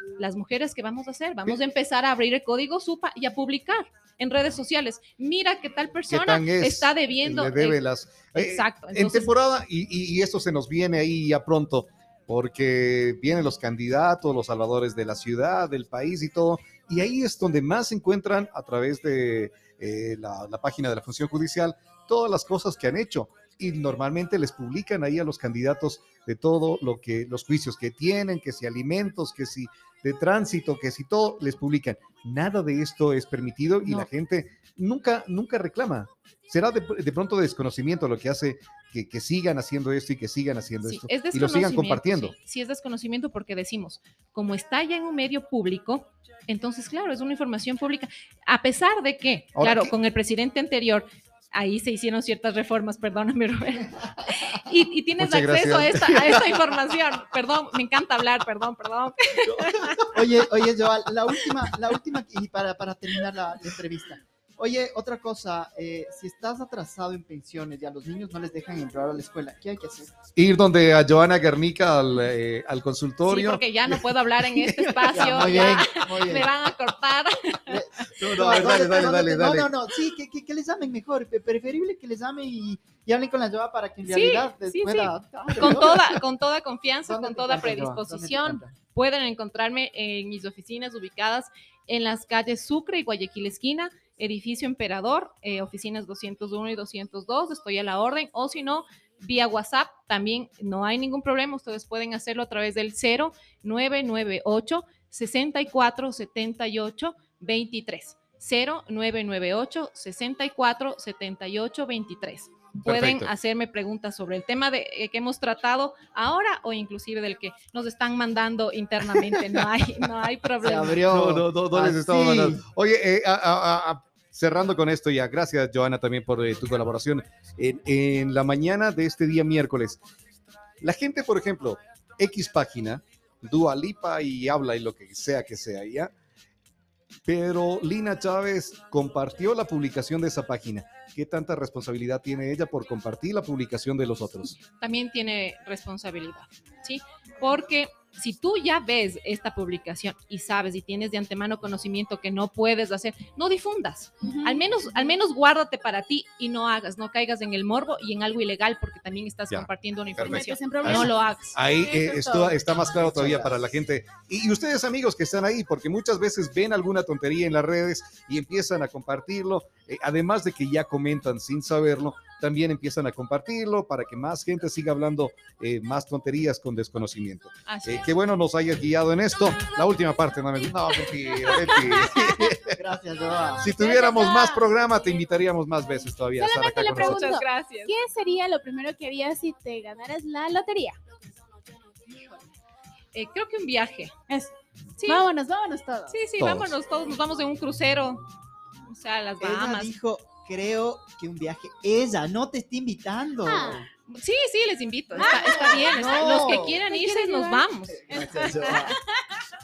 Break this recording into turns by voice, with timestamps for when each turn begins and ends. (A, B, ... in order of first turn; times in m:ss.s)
0:00.2-0:07.8 A
0:06.1-0:42.3 B
0:08.3-0:09.3 A
0:40.8-1:00.1 A
0:49.5-0:49.9 B
0:55.2-0:56.6 B
0:59.4-1:00.2 B
1:00.1-1:10.1 C
1:10.4-1:15.6 B
1:13.2-1:17.8 A
1:15.1-1:16.5 C
1:17.5-1:26.2 C
1:18.1-1:19.7 B
1:24.1-2:01.0 A
1:27.1-1:28.7 C
1:52.8-1:53.3 B
2:00.6-2:02.6 C
2:01.0-2:10.0 B
2:10.8-2:16.1 B
2:17.2-2:24.5 B
2:24.6-2:41.6 A
2:34.2-2:34.9 D
2:39.5-3:02.8 B
2:40.2-2:42.6 D
2:42.9-2:43.6 C
2:57.6-2:58.1 A
3:01.4-3:02.5 A
3:02.7-3:03.7 C
3:03.6-3:07.3 B
3:03.8-3:04.6 D
3:06.4-3:11.0 D
3:06.9-3:07.9 A
3:13.1-3:14.1 A
3:14.3-3:14.5 D
3:15.0-3:15.2 A
3:15.0-3:16.2 D
3:16.1-3:18.2 A
3:16.4-3:16.7 B
3:18.8-3:20.0 A
3:19.4-3:23.9 C
3:23.4-3:23.8 D
3:24.1-3:28.2 A
3:25.1-3:26.8 C
3:25.2-3:29.1 D
3:27.9-3:29.0 C